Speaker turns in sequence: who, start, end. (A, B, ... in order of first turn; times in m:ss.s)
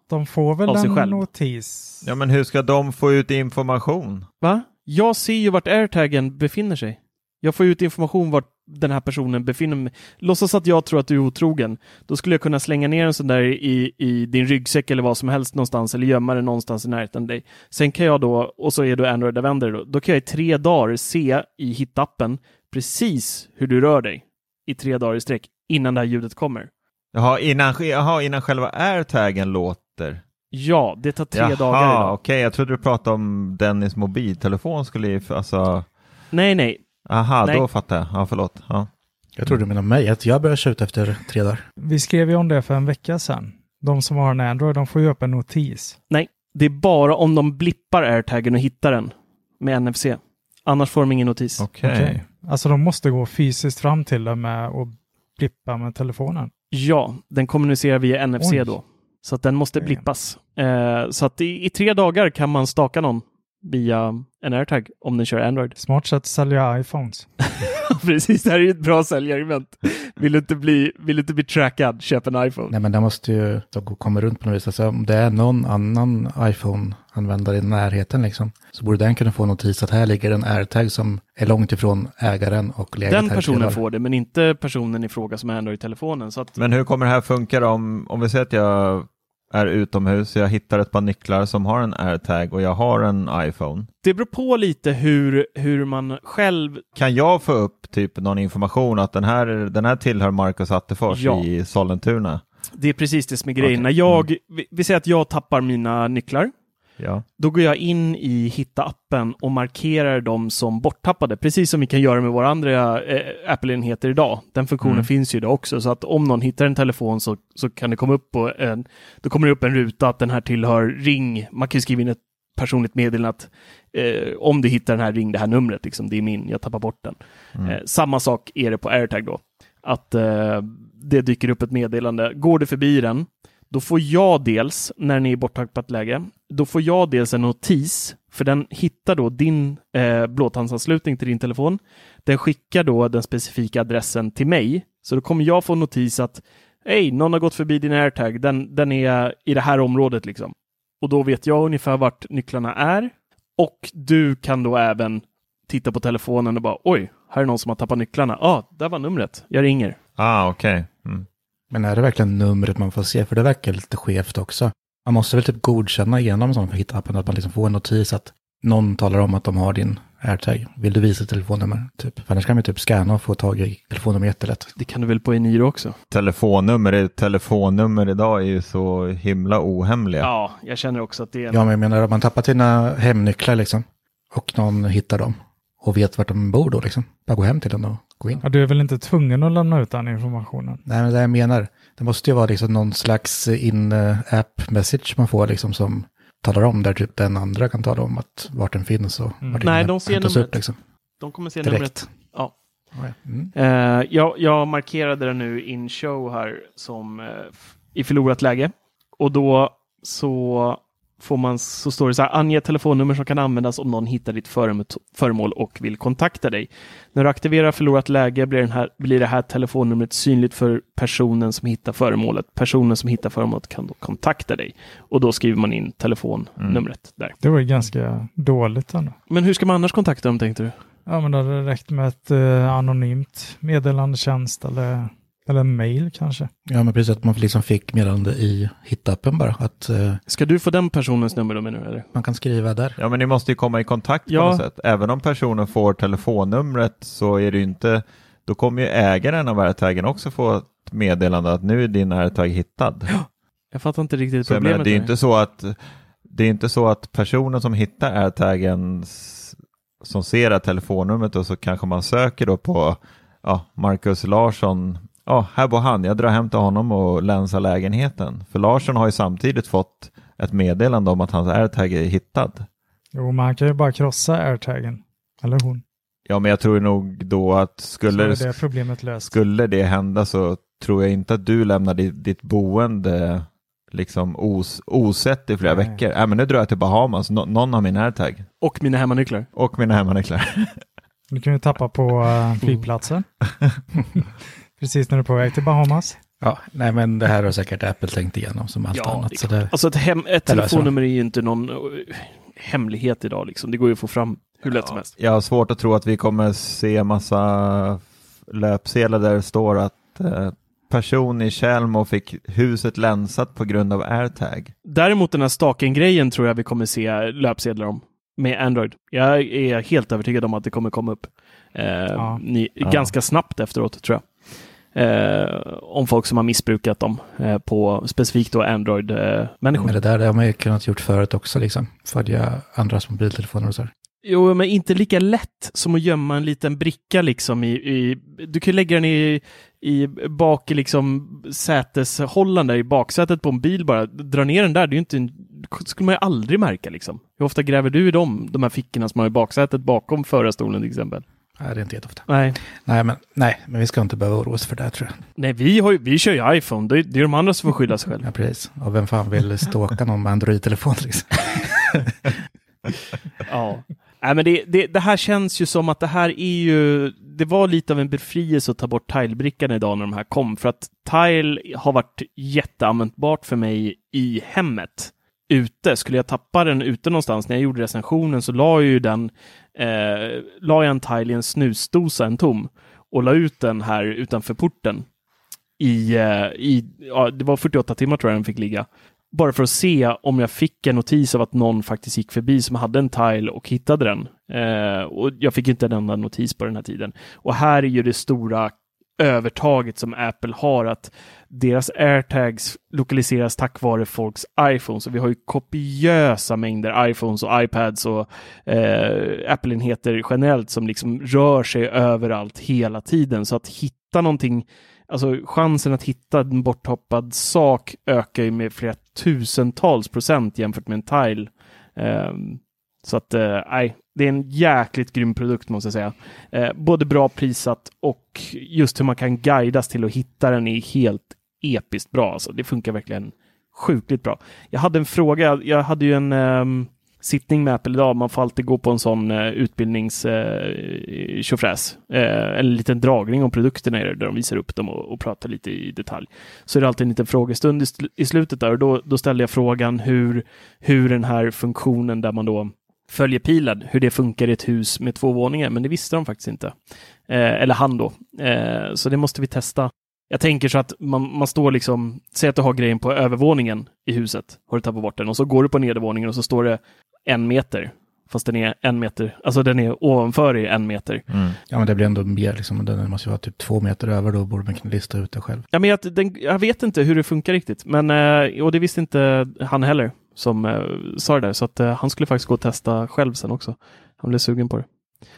0:00.1-0:02.0 A
0:00.6-0:01.3 B
0:02.0-0:04.3 C
0:04.4-0:26.7 B
0:27.1-0:30.2 C
0:30.5-0:32.2 B
0:31.3-0:35.9 C
0:36.3-0:36.8 B
0:37.1-0:38.9 C
0:39.4-0:41.6 D
0:41.8-0:46.0 A
0:46.1-0:51.6 B
0:51.6-0:52.2 C
0:51.8-0:56.5 A
0:56.7-1:05.8 B
0:58.4-0:58.7 A
1:05.8-1:07.3 A
1:07.5-1:12.7 B
1:12.7-1:23.8 D
1:23.0-1:26.6 B
1:26.6-1:33.9 C
1:34.0-1:36.8 B
1:37.0-1:42.4 C
1:41.1-1:41.4 B
1:42.7-1:46.5 B
1:43.6-1:44.2 C
1:47.0-1:47.2 C
1:47.4-2:40.0 B
1:54.8-1:55.1 C
2:40.2-2:41.2 C
2:41.7-2:54.7 D
2:54.8-2:56.0 B
2:56.1-3:00.3 C
3:00.2-3:01.7 B
3:01.5-3:08.4 D
3:08.4-3:10.8 A
3:10.8-3:20.8 D
3:19.4-3:19.7 A
3:19.6-3:20.6 B
3:21.2-3:22.5 B
3:21.6-3:22.1 D
3:22.9-3:23.5 D
3:23.5-3:47.4 B
3:47.4-3:49.2 A
3:49.3-3:50.7 B
3:51.1-3:56.5 A
3:56.7-4:00.2 D
4:00.3-4:02.1 B
4:02.1-4:03.0 D
4:03.0-4:13.1 C
4:04.3-4:04.6 B
4:13.1-4:15.1 B
4:14.4-4:15.8 C
4:16.3-4:32.6 C
4:33.1-4:35.8 A
4:36.3-4:38.6 C
4:38.1-4:39.3 A
4:39.2-4:48.5 C
4:45.6-4:46.0 A
4:48.6-4:49.5 B
4:49.6-4:50.8 C
4:51.3-4:53.3 A
4:52.6-4:52.9 B
4:54.8-4:56.2 A
4:56.4-4:59.7 D
4:58.9-5:05.1 B
5:00.4-5:00.9 D
5:04.7-5:14.7 C
5:14.8-5:24.2 B
5:22.8-5:23.1 C
5:24.9-5:30.0 B
5:29.8-5:33.9 D
5:34.2-5:51.2 B
5:51.6-5:55.2 D
5:52.3-5:52.6 B
5:55.4-5:58.2 B
5:58.2-6:02.1 D
6:03.4-6:25.0 B
6:25.8-7:36.7 B
7:37.3-7:51.2 B
7:51.3-7:51.6 C
7:51.7-7:55.6 D
7:55.7-8:04.8 B